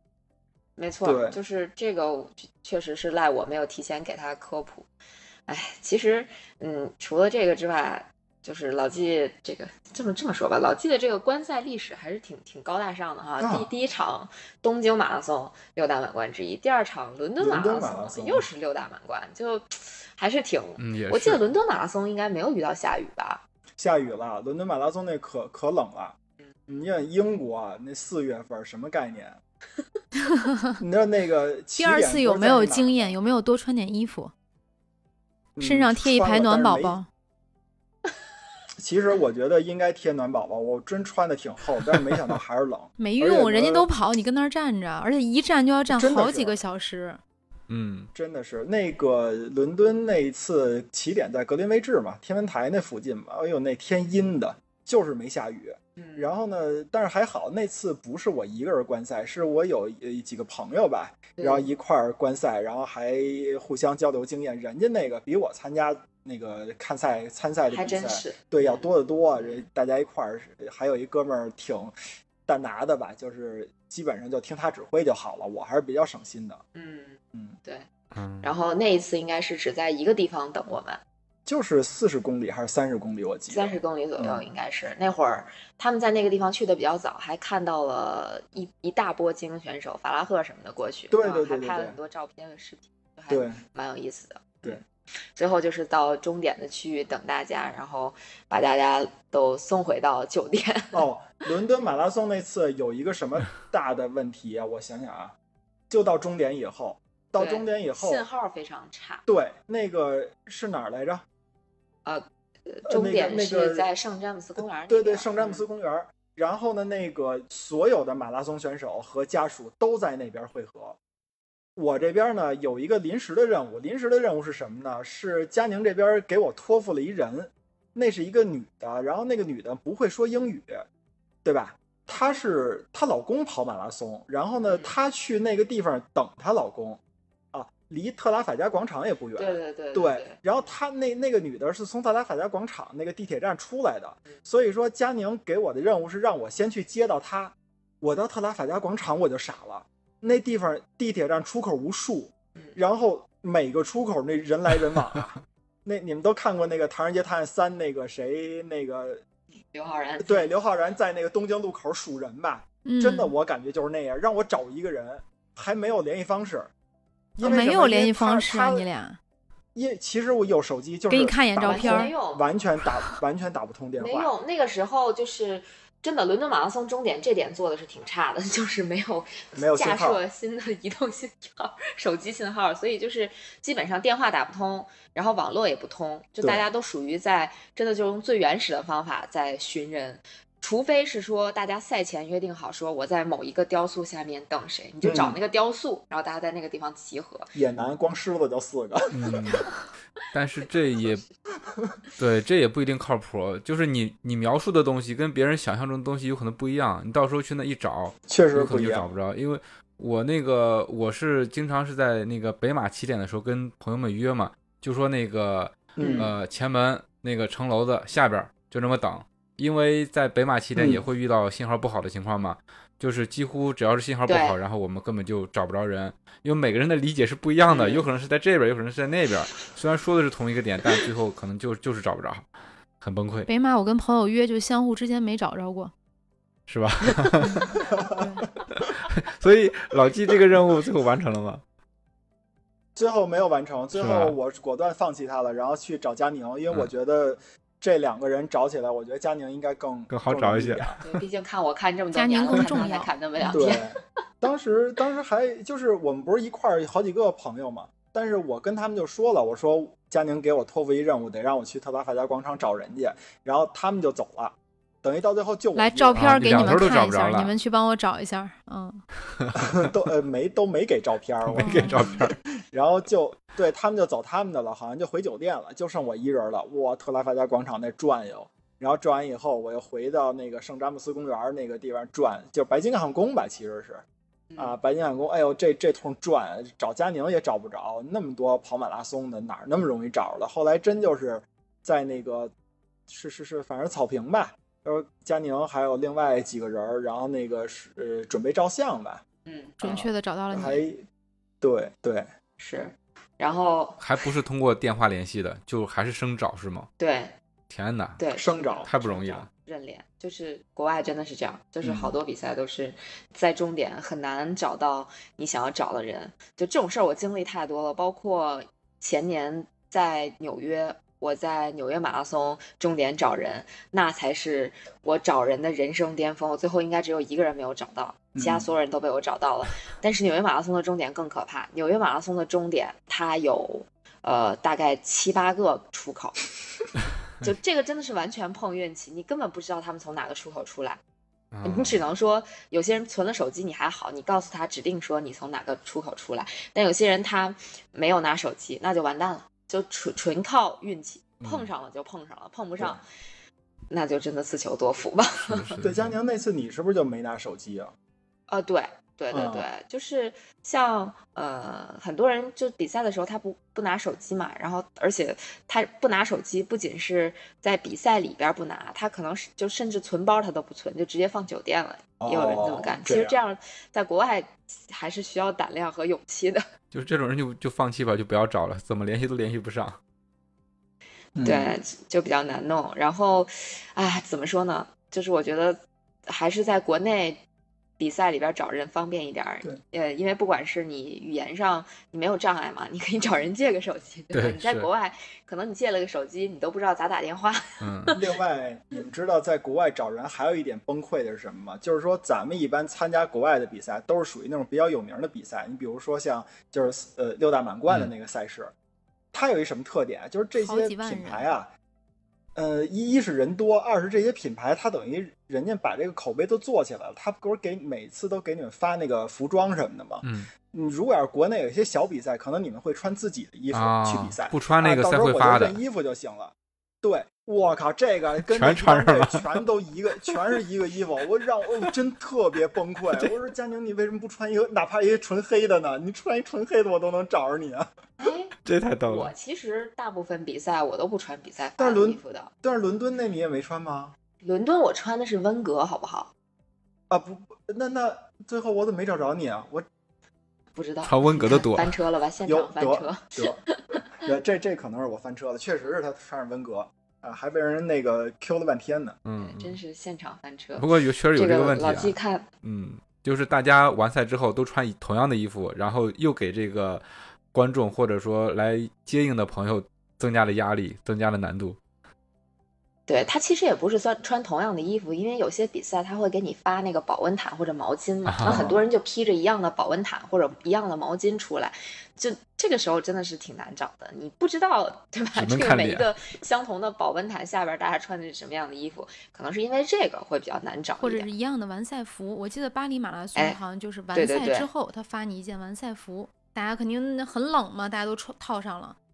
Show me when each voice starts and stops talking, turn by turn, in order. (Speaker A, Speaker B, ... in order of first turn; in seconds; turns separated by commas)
Speaker A: 0.8-4.9, Speaker B: 1.0-1.4, Speaker A: 5.5-23.4, Speaker B: 13.4-13.7, Speaker B: 17.4-18.5, Speaker C: 20.8-21.4, Speaker B: 23.8-26.1, Speaker B: 26.7-29.4, Speaker D: 30.2-30.8, Speaker B: 30.8-33.1, Speaker D: 31.8-34.3, Speaker B: 35.5-37.0, Speaker D: 35.6-37.1, Speaker B: 38.8-43.9, Speaker D: 43.0-47.2, Speaker B: 45.9-46.6, Speaker C: 47.7-48.1, Speaker B: 48.1-71.9, Speaker A: 56.0-56.3, Speaker A: 61.4-61.7, Speaker A: 67.7-68.8, Speaker A: 69.4-69.6, Speaker B: 72.5-76.6, Speaker A: 76.7-77.9, Speaker C: 78.1-78.5, Speaker A: 78.4-81.0, Speaker B: 81.5-84.5, Speaker A: 83.5-94.8, Speaker B: 91.1-92.0, Speaker B: 93.3-93.6, Speaker A: 95.3-101.0, Speaker B: 100.9-105.3, Speaker B: 105.9-108.2, Speaker A: 107.4-109.2, Speaker B: 109.3-111.2, Speaker A: 112.0-115.6, Speaker B: 112.9-113.9, Speaker B: 114.9-121.0, Speaker B: 121.8-130.8, Speaker B: 131.4-137.0, Speaker B: 137.5-159.2, Speaker A: 139.4-140.4, Speaker A: 159.7-160.5, Speaker B: 160.2-166.7, Speaker D: 162.8-163.3, Speaker B: 167.3-168.8, Speaker D: 167.4-169.2, Speaker B: 169.7-174.3, Speaker D: 171.1-172.1, Speaker A: 171.6-172.4, Speaker A: 174.0-197.5, Speaker B: 179.6-180.2, Speaker B: 186.4-186.7, Speaker B: 195.0-195.4, Speaker B: 197.5-199.6, Speaker C: 199.1-199.7, Speaker C: 200.3-201.2, Speaker A: 200.6-201.3, Speaker C: 202.2-232.5, Speaker B: 208.3-209.1, Speaker B: 216.0-216.3, Speaker A: 216.0-216.3, Speaker B: 220.8-221.0, Speaker A: 224.3-224.6, Speaker A: 227.7-228.1, Speaker C: 233.0-233.5, Speaker D: 233.4-235.9, Speaker C: 236.7-237.8, Speaker D: 237.5-238.4, Speaker B: 237.7-238.4, Speaker C: 238.7-241.6, Speaker B: 242.9-251.0, Speaker C: 243.9-244.3, Speaker C: 250.1-250.9, Speaker A: 251.0-253.9, Speaker D: 252.1-253.6, Speaker B: 253.5-266.8, Speaker D: 265.7-269.0, Speaker C: 266.1-267.5, Speaker B: 269.5-284.0, Speaker C: 271.4-272.4, Speaker D: 271.6-272.0, Speaker B: 284.6-292.5, Speaker B: 293.1-299.2, Speaker A: 299.4-299.8, Speaker D: 299.8-300.8, Speaker B: 299.8-301.0, Speaker B: 301.6-302.3, Speaker A: 302.6-304.0, Speaker C: 304.0-306.9, Speaker A: 307.0-307.3, Speaker C: 307.7-308.2, Speaker A: 308.2-336.4, Speaker B: 308.3-308.9, Speaker C: 308.9-309.5, Speaker B: 311.8-312.1, Speaker B: 328.3-328.7, Speaker A: 337.4-341.0, Speaker C: 341.5-342.0, Speaker A: 341.6-353.0, Speaker C: 351.4-351.7, Speaker A: 353.9-355.8, Speaker C: 355.5-356.1, Speaker B: 355.8-357.9, Speaker A: 358.5-376.6, Speaker B: 359.3-359.7, Speaker B: 372.2-373.4, Speaker C: 376.9-380.0, Speaker B: 381.4-381.7, Speaker A: 381.4-387.4, Speaker A: 388.0-398.2, Speaker C: 394.3-394.9, Speaker C: 397.8-398.1, Speaker B: 398.1-408.7, Speaker B: 409.3-411.7, Speaker D: 410.6-411.5, Speaker B: 412.5-437.9, Speaker C: 420.2-420.5, Speaker C: 423.7-425.8, Speaker C: 428.5-429.4, Speaker A: 438.2-438.5, Speaker C: 438.6-439.3, Speaker A: 439.1-442.5, Speaker B: 441.8-444.1, Speaker A: 444.4-446.3, Speaker B: 447.1-449.9, Speaker A: 450.7-454.0, Speaker C: 451.0-451.9, Speaker B: 452.4-453.6, Speaker B: 454.2-459.2, Speaker C: 459.2-459.8, Speaker A: 459.4-462.5, Speaker C: 460.8-471.8, Speaker A: 473.1-491.3, Speaker C: 478.2-478.8, Speaker B: 478.5-478.7, Speaker C: 485.3-486.1, Speaker D: 491.0-499.0, Speaker A: 494.1-494.7